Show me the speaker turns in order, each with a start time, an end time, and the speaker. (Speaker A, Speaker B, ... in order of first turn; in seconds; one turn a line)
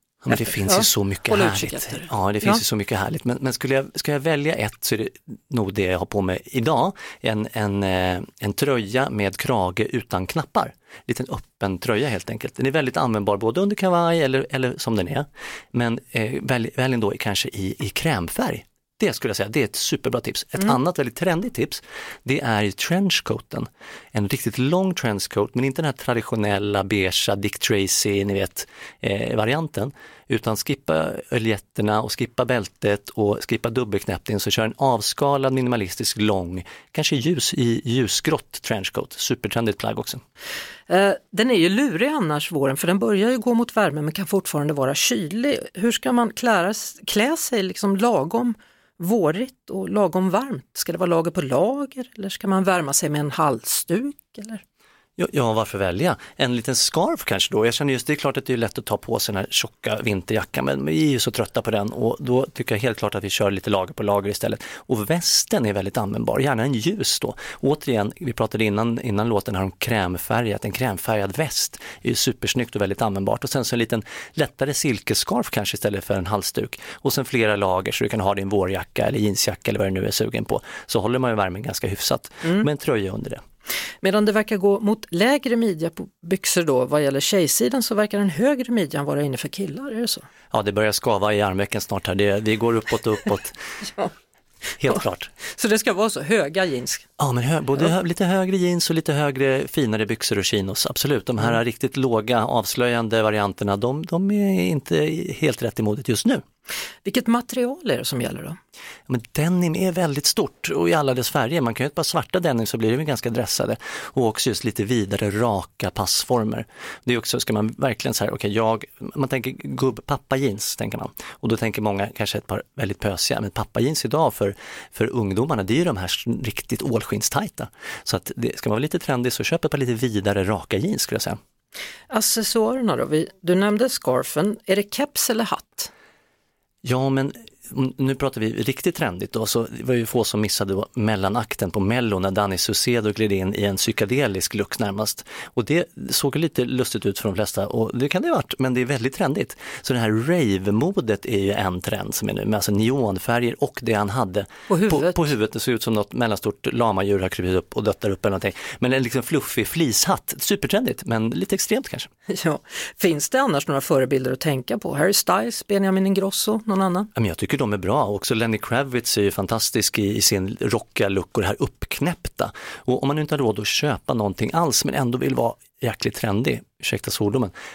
Speaker A: 0.2-40.2
Speaker B: 0.3-2.6
Speaker B: 40.9-54.6
Speaker A: 55.2-83.4
Speaker B: 84.0-90.3
Speaker A: 90.5-93.6
Speaker A: 94.8-95.3
Speaker B: 94.9-97.0
Speaker A: 97.2-106.4
Speaker B: 107.0-108.6
Speaker A: 109.1-131.4
Speaker B: 132.1-135.9
Speaker A: 136.8-162.1
Speaker B: 154.7-155.3
Speaker B: 162.3-167.1
Speaker A: 167.1-177.5